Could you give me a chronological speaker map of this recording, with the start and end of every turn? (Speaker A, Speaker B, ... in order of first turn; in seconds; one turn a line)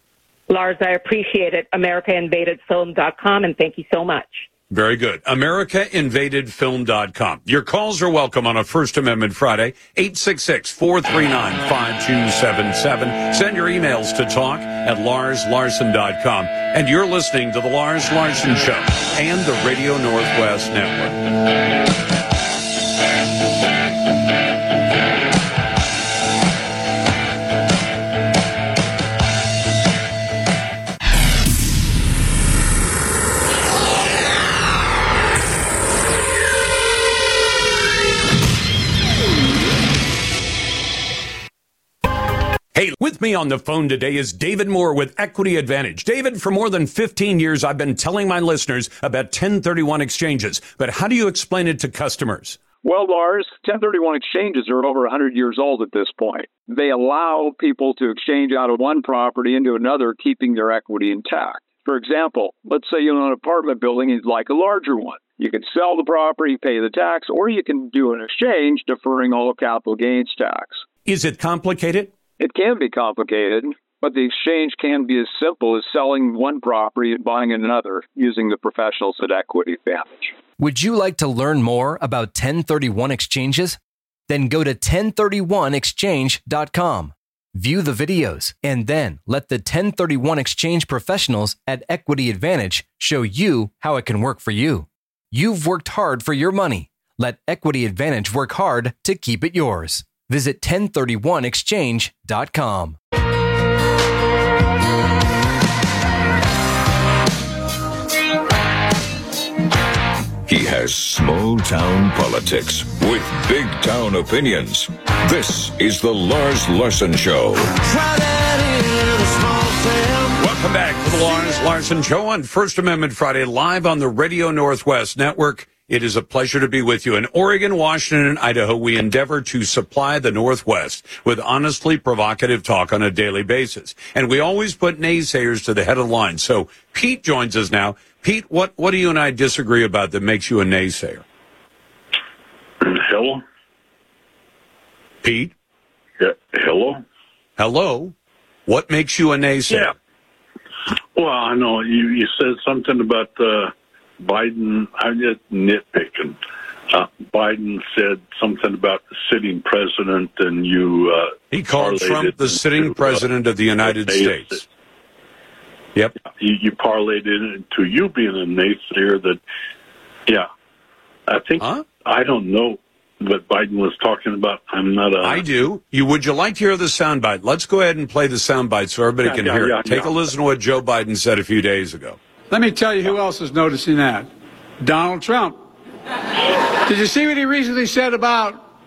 Speaker A: 0.5-4.5
Speaker B: 4.7-21.2
Speaker B: 42.7-52.6
Speaker C: 52.8-70.8
Speaker B: 71.0-72.1
Speaker C: 72.4-80.3
Speaker D: 80.6-83.8
Speaker D: 84.3-103.0
Speaker E: 110.5-117.8
Speaker E: 119.3-119.6
Speaker B: 120.4-141.2
Speaker F: 142.8-143.4
Speaker B: 145.2-145.5
Speaker F: 146.2-147.0
Speaker B: 147.6-148.1
Speaker B: 148.7-149.9
Speaker F: 151.2-156.3
Speaker F: 156.9-163.2
Speaker B: 161.5-164.6
Speaker F: 163.8-164.6
Speaker F: 166.3-169.4
Speaker F: 171.3-175.4
Speaker B: 175.2-182.2
Speaker F: 179.2-180.1
Speaker G: 182.5-184.3
Speaker G: 184.8-185.6
Speaker G: 186.9-188.6